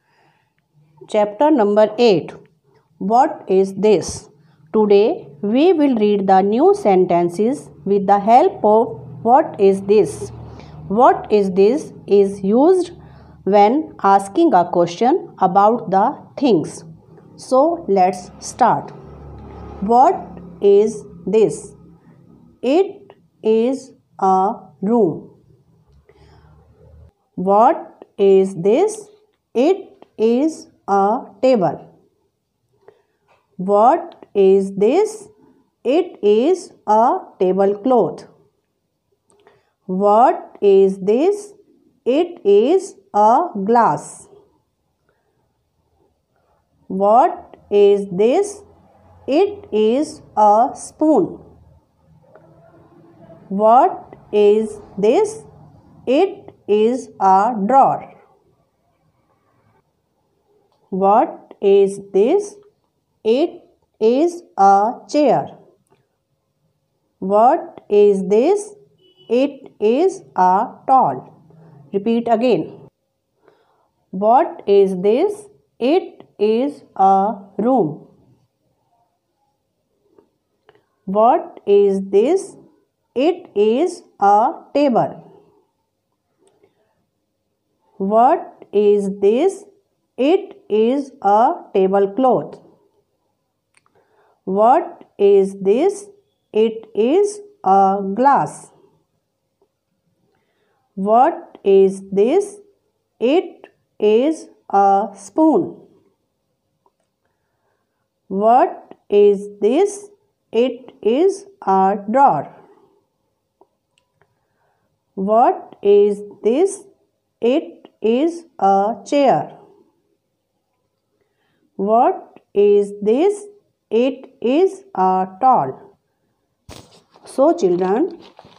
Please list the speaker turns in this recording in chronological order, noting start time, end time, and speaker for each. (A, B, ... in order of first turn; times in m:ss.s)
0:01.1-0:02.4 A
0:03.0-0:10.3 A
0:10.9-0:12.9 A
0:13.4-0:16.8 A
0:17.4-0:18.9 A
0:19.8-0:21.7 A
0:22.6-0:25.3 A
0:27.4-0:31.8 A
0:33.6-0:35.3 A
0:35.8-0:38.3 A
0:39.9-0:44.3 A
0:46.9-0:48.6 A
0:49.3-0:51.4 A
0:53.5-0:55.4 A
0:56.0-0:58.1 A
1:00.9-1:02.6 A
1:03.2-1:05.5 A
1:07.2-1:08.8 A
1:09.3-1:11.2 A
1:11.9-1:12.7 A
1:14.1-1:18.1 A
1:21.1-1:22.6 A
1:23.2-1:25.2 A
1:28.0-1:32.6 A
1:34.4-1:38.7 A
1:41.0-1:42.6 A
1:43.2-1:45.8 A
1:48.3-1:52.5 A
1:55.2-1:56.8 A
1:57.4-1:59.5 A
2:01.8-2:05.8 A
2:07.2-2:08.1 A